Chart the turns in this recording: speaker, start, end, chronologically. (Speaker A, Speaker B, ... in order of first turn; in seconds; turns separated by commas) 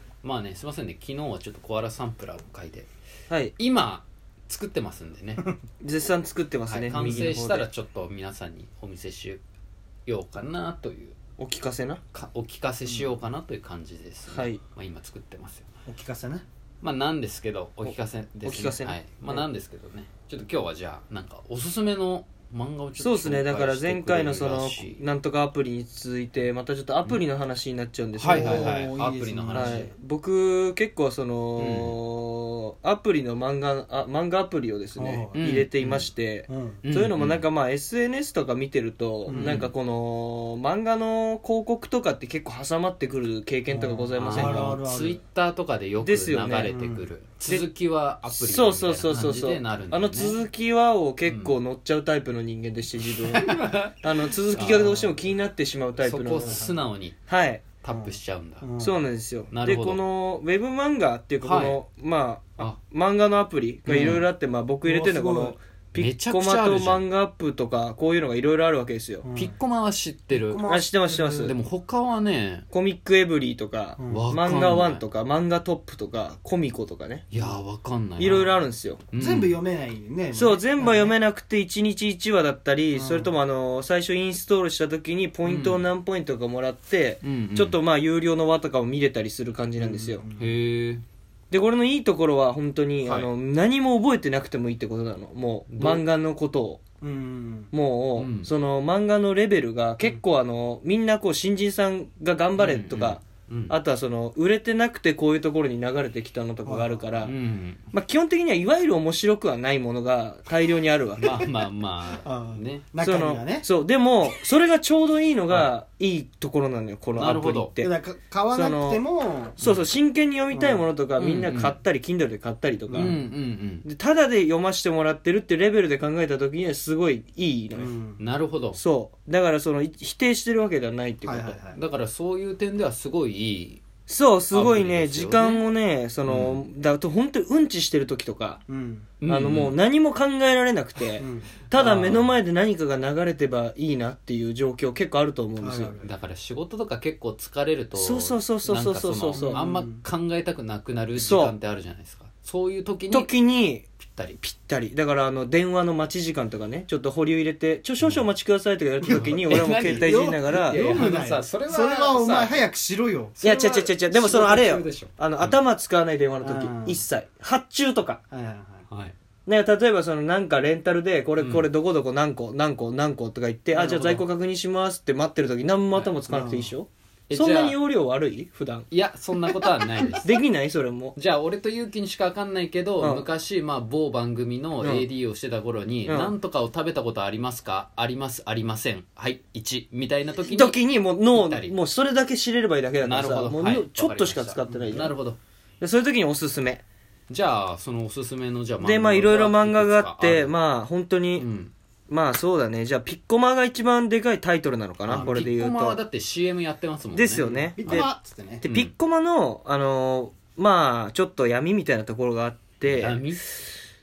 Speaker A: 0.2-2.9, Speaker A: 3.6-5.5, Speaker B: 5.8-7.7, Speaker A: 6.7-9.4, Speaker A: 10.1-11.2, Speaker B: 11.4-12.0, Speaker A: 12.1-15.7, Speaker B: 14.3-14.6, Speaker C: 15.9-16.4, Speaker A: 16.8-25.0, Speaker B: 17.9-19.4, Speaker B: 23.0-28.8, Speaker A: 28.2-29.9, Speaker C: 28.2-29.9, Speaker B: 29.5-44.8, Speaker A: 31.6-32.0, Speaker C: 35.0-35.6, Speaker A: 35.4-36.1, Speaker C: 36.5-36.8, Speaker A: 36.8-37.5, Speaker C: 39.3-39.6, Speaker A: 39.3-39.7, Speaker C: 43.7-45.2, Speaker A: 44.2-50.4, Speaker B: 46.0-46.7, Speaker C: 46.6-47.0, Speaker B: 48.3-53.5, Speaker C: 49.1-49.4, Speaker A: 51.3-51.5, Speaker A: 53.2-53.9, Speaker B: 54.0-56.7, Speaker A: 54.5-55.1, Speaker A: 56.0-57.2, Speaker C: 56.4-56.8, Speaker B: 57.3-57.7, Speaker A: 57.8-58.7, Speaker C: 57.9-59.0, Speaker B: 58.8-69.3, Speaker A: 59.5-60.0, Speaker A: 61.4-61.8, Speaker A: 63.9-64.3, Speaker C: 64.8-65.6, Speaker A: 66.0-67.1, Speaker C: 69.2-69.6, Speaker A: 69.3-70.6, Speaker C: 70.3-71.5, Speaker B: 70.7-71.5, Speaker A: 71.4-72.7, Speaker B: 72.7-77.3, Speaker C: 74.0-74.3, Speaker A: 74.1-75.0, Speaker A: 77.3-78.6, Speaker B: 78.2-79.1, Speaker A: 79.1-79.6, Speaker C: 79.2-81.1, Speaker B: 80.3-90.2, Speaker C: 82.9-83.3, Speaker A: 85.5-85.9, Speaker A: 87.2-87.8, Speaker C: 89.8-90.5, Speaker A: 90.4-91.0, Speaker B: 91.5-96.8, Speaker A: 93.0-93.3, Speaker A: 95.7-96.0, Speaker C: 97.0-97.7, Speaker B: 97.7-107.3, Speaker A: 98.2-98.5, Speaker A: 102.6-103.8, Speaker C: 106.7-107.2, Speaker A: 107.2-107.8, Speaker B: 107.9-111.4, Speaker A: 111.2-112.9, Speaker C: 112.2-113.7, Speaker B: 113.0-117.9, Speaker A: 117.2-117.8, Speaker C: 117.8-119.6, Speaker B: 118.5-119.0, Speaker B: 119.6-123.2, Speaker C: 120.5-120.9, Speaker A: 121.2-121.8, Speaker C: 122.9-123.2, Speaker A: 123.0-123.9, Speaker B: 123.8-127.9, Speaker C: 127.8-128.2, Speaker A: 128.2-128.8, Speaker B: 128.8-131.6, Speaker C: 131.2-131.8, Speaker A: 131.7-133.8, Speaker B: 134.1-138.6, Speaker A: 134.5-135.7, Speaker A: 136.2-136.6, Speaker C: 138.7-139.2, Speaker A: 139.2-139.8, Speaker B: 139.3-146.0, Speaker C: 141.2-141.7, Speaker A: 141.8-142.3, Speaker C: 145.6-146.1, Speaker A: 146.0-153.3, Speaker B: 147.9-149.6, Speaker C: 149.4-150.0, Speaker B: 151.2-151.6, Speaker B: 153.1-153.9, Speaker A: 154.0-154.4, Speaker B: 154.4-160.8, Speaker A: 158.0-158.3, Speaker C: 159.0-163.4, Speaker A: 159.1-162.7, Speaker A: 163.4-165.6, Speaker B: 163.4-168.2, Speaker C: 166.4-167.0, Speaker C: 168.3-168.8, Speaker A: 168.9-169.2, Speaker B: 169.5-178.9, Speaker A: 171.4-171.7, Speaker A: 173.7-174.3, Speaker C: 176.3-176.7, Speaker A: 177.3-177.8, Speaker A: 178.9-180.3, Speaker B: 180.2-181.2, Speaker A: 181.2-190.8, Speaker B: 183.0-183.3, Speaker B: 184.8-185.1, Speaker B: 186.1-186.3, Speaker B: 190.4-195.2, Speaker A: 191.3-191.8, Speaker A: 193.0-195.4, Speaker B: 195.8-196.8, Speaker A: 197.3-200.6, Speaker B: 198.8-201.5, Speaker A: 201.4-201.7, Speaker B: 202.1-206.0, Speaker A: 205.1-208.1, Speaker C: 205.1-205.4, Speaker B: 207.1-208.1, Speaker C: 207.6-208.7, Speaker B: 208.6-213.7, Speaker A: 208.6-208.9, Speaker A: 212.8-213.4